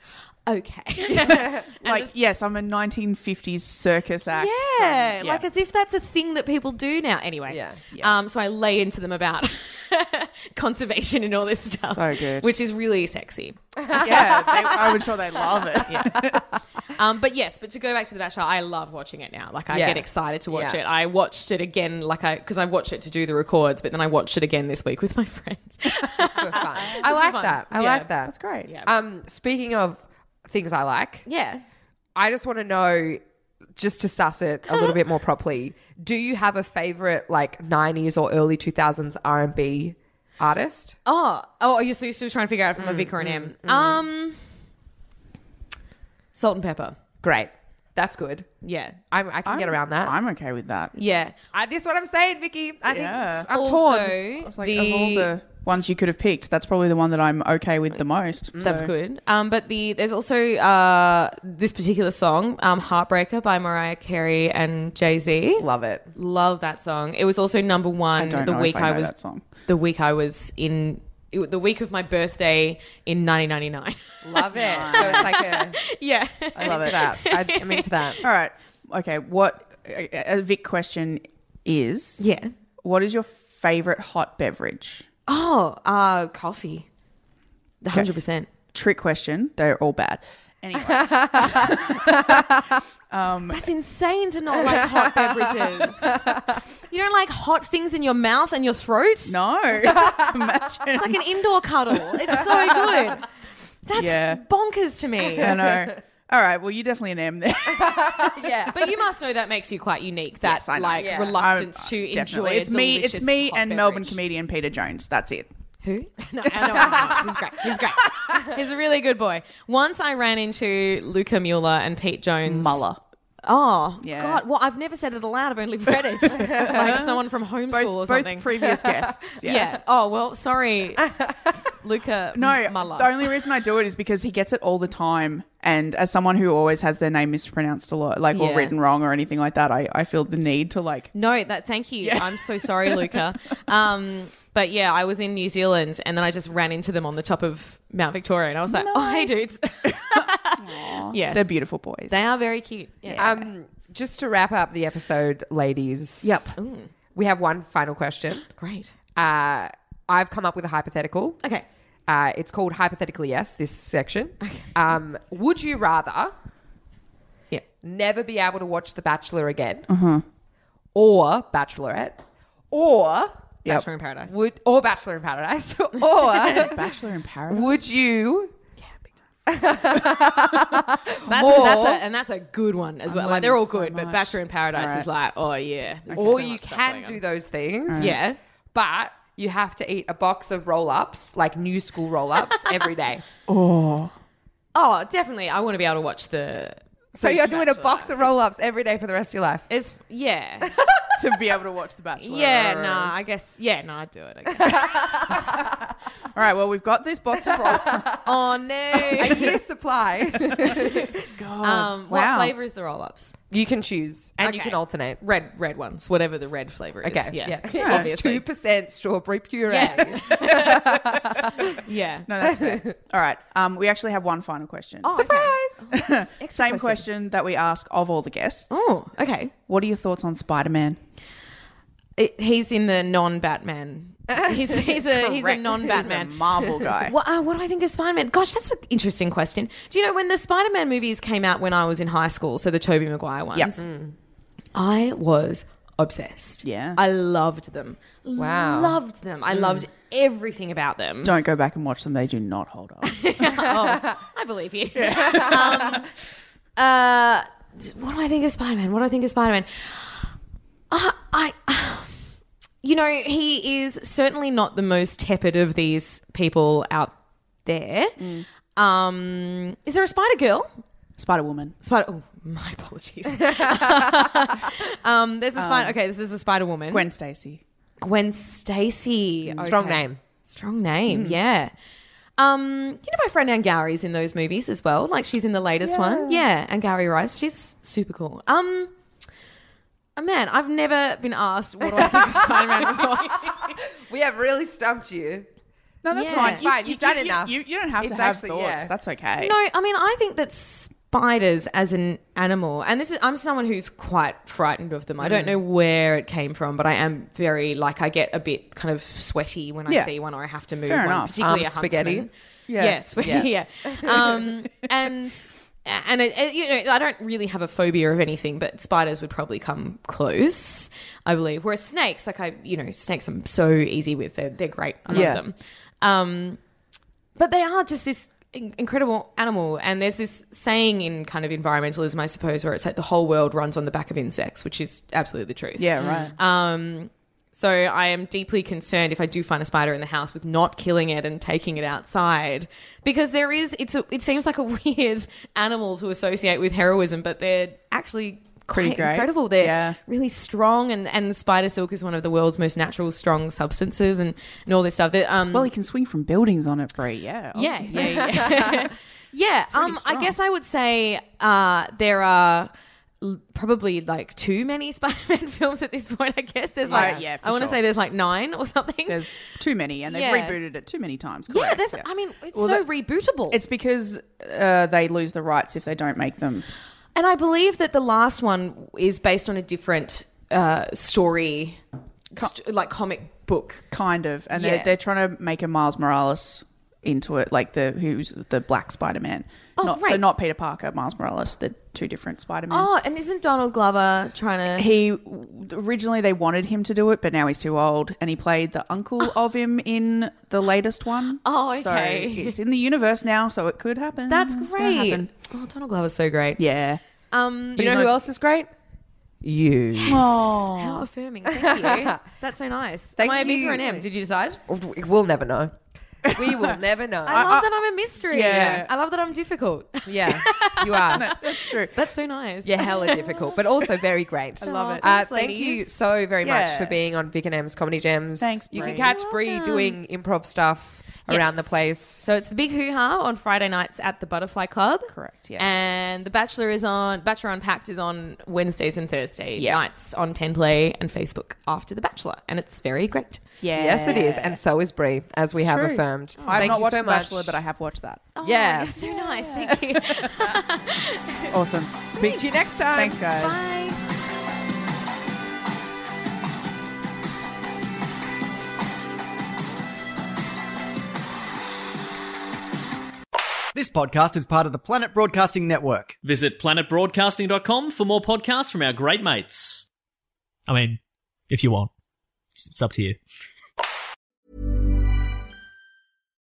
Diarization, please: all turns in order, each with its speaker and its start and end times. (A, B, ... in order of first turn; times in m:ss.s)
0:00.5-0:02.1 A
0:01.1-0:04.6 B
0:04.3-0:13.6 A
0:05.2-0:05.4 C
0:07.5-0:07.8 C
0:11.8-0:12.5 B
0:13.8-0:15.0 C
0:13.9-0:16.5 B
0:15.9-0:28.1 A
0:19.7-0:20.8 C
0:26.2-0:31.3 C
0:28.2-0:28.7 B
0:28.7-0:28.9 A
0:31.3-0:31.6 A
0:32.2-0:33.2 C
0:33.8-0:41.0 C
0:34.7-0:35.0 A
0:41.1-0:44.4 A
0:42.8-0:44.0 C
0:46.3-0:47.0 A
0:47.2-0:48.5 C
0:48.6-0:49.0 A
0:49.1-0:50.2 C
0:49.5-0:50.9 B
0:50.9-0:51.4 A
0:51.5-0:54.2 C
0:52.9-0:53.5 B
0:53.5-0:55.3 A
0:54.2-0:58.9 B
0:58.6-0:58.8 C
0:58.6-1:09.1 A
1:05.6-1:06.1 C
1:08.2-1:09.5 B
1:09.7-1:18.2 A
1:14.2-1:15.8 C
1:14.6-1:15.5 B
1:16.6-1:17.0 B
1:16.6-1:18.2 C
1:18.2-1:22.3 B
1:22.2-1:22.5 A
1:22.8-1:25.1 B
1:25.3-1:26.9 A
1:27.8-1:28.5 A
1:28.7-1:33.7 B
1:30.9-1:32.5 C
1:33.5-1:39.4 A
1:34.6-1:36.4 C
1:39.3-1:41.3 B
1:39.8-1:40.6 C
1:40.9-1:43.3 A
1:41.9-1:43.1 B
1:43.9-1:45.6 A
1:43.9-1:44.4 B
1:45.3-1:48.4 B
1:45.6-1:45.9 C
1:47.7-1:48.9 C
1:48.7-1:54.2 A
1:50.4-1:55.5 B
1:51.0-1:51.4 C
1:55.8-2:02.8 A
1:56.6-1:58.3 B
2:02.5-2:03.0 B
2:03.4-2:08.6 A
2:04.0-2:04.4 B
2:06.3-2:09.8 B
2:09.4-2:11.2 A
2:11.1-2:11.5 C
2:11.8-2:13.4 A
2:12.4-2:21.1 B
2:18.3-2:18.7 C
2:21.2-2:31.4 A
2:22.0-2:23.2 B
2:28.7-2:32.3 B
2:32.1-2:33.4 A
2:33.0-2:33.5 B
2:33.2-2:36.6 C
2:36.2-2:36.5 B
2:36.6-2:36.9 A
2:37.1-2:38.5 C
2:38.5-2:38.9 A
2:39.2-2:41.4 C
2:42.1-2:46.3 C
2:44.4-2:44.7 A
2:47.8-2:49.9 C
2:49.9-2:50.2 B
2:51.0-2:53.4 C
2:53.7-2:54.3 A
2:54.3-2:57.0 C
2:56.3-2:57.7 B
2:57.5-2:58.5 C
2:59.5-3:02.0 C
3:01.3-3:07.2 A
3:03.1-3:05.1 B
3:06.1-3:06.4 B
3:06.1-3:13.2 C
3:07.9-3:08.2 B
3:08.0-3:08.4 A
3:13.5-3:14.1 B
3:14.8-3:18.2 A
3:17.2-3:19.7 C
3:19.7-3:20.8 A
3:20.7-3:21.2 C
3:21.2-3:23.2 B
3:22.2-3:25.4 A
3:24.6-3:25.5 C
3:25.3-3:25.7 B
3:26.3-3:28.1 B
3:27.5-3:28.2 C
3:28.2-3:29.5 A
3:29.1-3:31.3 C
3:30.7-3:31.0 A
3:30.8-3:32.5 B
3:31.6-3:33.3 A
3:33.5-3:35.2 C
3:34.4-3:38.4 A
3:37.0-3:41.8 C
3:37.8-3:38.2 B
3:39.7-3:42.3 A
3:42.3-3:49.0 B
3:42.4-3:43.0 C
3:45.0-3:47.0 A
3:45.1-3:45.8 C
3:48.7-3:49.5 A
3:49.7-3:51.0 B
3:52.2-4:03.8 A
3:54.8-3:57.2 B
4:03.8-4:04.1 C
4:04.7-4:11.3 A
4:06.6-4:07.0 B
4:08.4-4:09.0 C
4:09.5-4:09.8 B
4:11.2-4:13.6 B
4:13.1-4:16.1 A
4:15.0-4:16.0 B
4:16.8-4:20.3 A
4:20.9-4:22.1 A
4:22.8-4:30.7 A
4:28.2-4:28.4 B
4:31.2-4:31.8 B
4:31.8-4:37.1 A
4:35.6-4:36.0 B
4:36.9-4:37.6 B
4:38.0-4:41.7 A
4:39.4-4:39.7 B
4:39.6-4:40.2 C
4:41.1-4:41.4 B
4:42.4-4:48.9 A
4:45.8-4:46.5 B
4:50.2-4:53.8 A
4:51.9-4:55.5 C
4:56.0-4:59.6 B
4:56.1-4:56.7 A
4:56.2-4:58.9 C
4:59.4-5:26.6 A
5:09.9-5:10.1 B
5:10.8-5:11.3 B
5:11.4-5:12.3 C
5:12.7-5:13.0 B
5:13.2-5:14.4 C
5:25.1-5:25.4 B
5:27.4-5:55.7 A
5:35.8-5:36.4 B
5:48.7-5:50.0 B
5:55.5-5:58.8 B
5:57.6-6:09.3 A
5:59.7-6:00.4 B
6:06.9-6:07.2 C
6:06.9-6:07.8 B
6:09.1-6:12.9 B
6:10.1-6:10.6 A
6:11.5-6:13.6 A
6:13.5-6:16.7 B
6:17.2-6:21.8 A
6:22.3-6:23.8 A
6:23.9-6:32.9 B
6:24.5-6:24.9 A
6:29.8-6:30.3 A
6:32.7-6:34.9 A
6:34.8-6:45.3 B
6:41.4-6:42.6 A
6:44.3-6:46.6 A
6:46.6-6:47.0 B
6:47.3-6:48.2 A
6:47.8-6:48.7 C
6:49.4-6:50.2 C
6:50.0-6:54.6 A
6:50.1-6:51.0 B
6:51.5-6:52.2 C
6:53.2-6:54.1 C
6:54.7-6:57.6 C
6:56.3-6:57.8 B
6:57.3-7:03.6 A
6:58.3-6:58.9 B
6:58.5-6:58.8 C
7:00.1-7:01.4 C
7:01.2-7:02.1 B
7:02.6-7:12.3 C
7:04.6-7:05.1 B
7:04.6-7:06.0 A
7:06.4-7:07.0 B
7:08.4-7:09.1 B
7:08.7-7:10.0 A
7:11.3-7:23.4 A
7:15.1-7:15.8 B
7:19.6-7:19.8 B
7:23.6-7:24.6 B
7:23.8-7:27.6 C
7:25.6-7:28.3 B
7:26.4-7:26.9 A
7:28.4-7:32.5 A
7:28.4-7:29.5 C
7:29.0-7:30.4 B
7:31.5-7:32.0 B
7:32.2-7:33.2 C
7:32.9-7:33.6 B
7:33.3-7:34.0 A
7:43.7-7:46.2 D
7:46.2-7:49.9 E
7:50.7-7:51.9 E
7:52.5-7:53.2 E